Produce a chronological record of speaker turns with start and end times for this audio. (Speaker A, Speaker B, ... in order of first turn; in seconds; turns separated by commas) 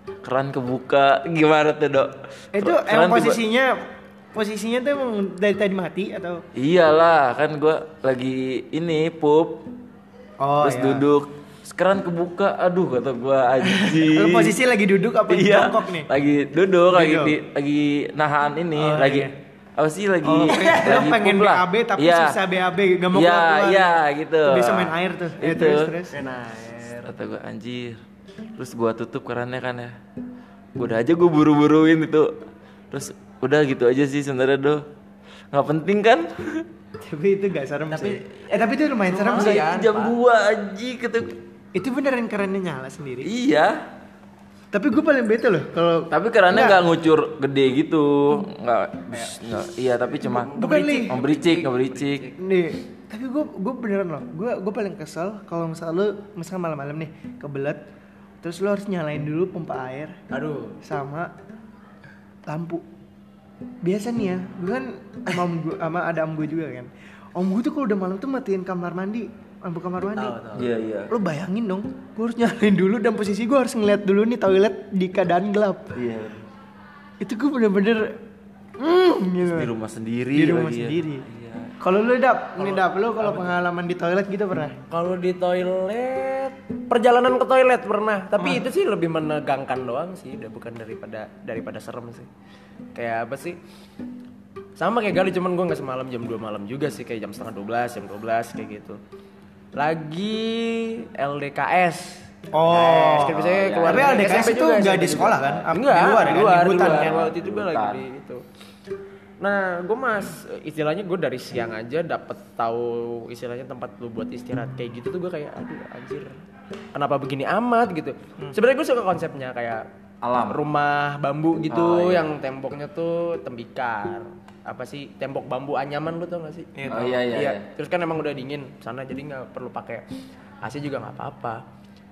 Speaker A: 0.2-3.4, Speaker B: 2.5-3.7, Speaker B: 4.3-6.4, Speaker A: 6.5-9.6, Speaker B: 10.4-11.0, Speaker A: 10.6-14.5, Speaker B: 14.0-16.1, Speaker A: 15.3-22.4, Speaker B: 16.9-17.4, Speaker B: 18.8-19.3, Speaker B: 20.2-26.1, Speaker C: 20.5-20.8, Speaker A: 23.1-25.9, Speaker C: 26.1-27.1, Speaker A: 27.0-28.0, Speaker A: 28.6-29.9, Speaker A: 30.8-32.3, Speaker A: 32.9-34.8, Speaker A: 35.5-36.6, Speaker B: 37.0-39.6, Speaker C: 37.9-40.1, Speaker A: 39.3-41.4, Speaker B: 41.7-43.3, Speaker A: 43.2-43.8, Speaker B: 44.7-46.8, Speaker A: 46.1-50.5, Speaker C: 50.2-52.4, Speaker B: 50.5-51.1, Speaker A: 51.1-52.3, Speaker B: 52.4-57.8, Speaker B: 58.4-60.1, Speaker C: 60.3-60.8, Speaker B: 60.8-61.3, Speaker B: 62.5-62.8, Speaker B: 63.8-70.4, Speaker C: 70.2-70.7, Speaker A: 70.5-71.1, Speaker B: 71.1-76.0, Speaker A: 75.9-76.4, Speaker B: 77.2-78.1, Speaker B: 78.8-79.7, Speaker A: 79.5-81.7, Speaker B: 80.3-81.2, Speaker B: 81.8-84.8, Speaker C: 82.6-83.5, Speaker C: 84.9-92.3, Speaker C: 92.9-93.6, Speaker C: 94.8-99.0, Speaker C: 99.8-108.4, Speaker B: 102.5-107.2, Speaker A: 103.2-104.5, Speaker A: 105.3-105.6, Speaker A: 106.6-108.0, Speaker C: 109.4-116.4, Speaker C: 116.9-119.8, Speaker A: 120.2-120.6, Speaker C: 120.5-130.1, Speaker A: 121.7-122.3, Speaker B: 126.8-127.2, Speaker A: 126.9-127.6, Speaker C: 130.6-131.6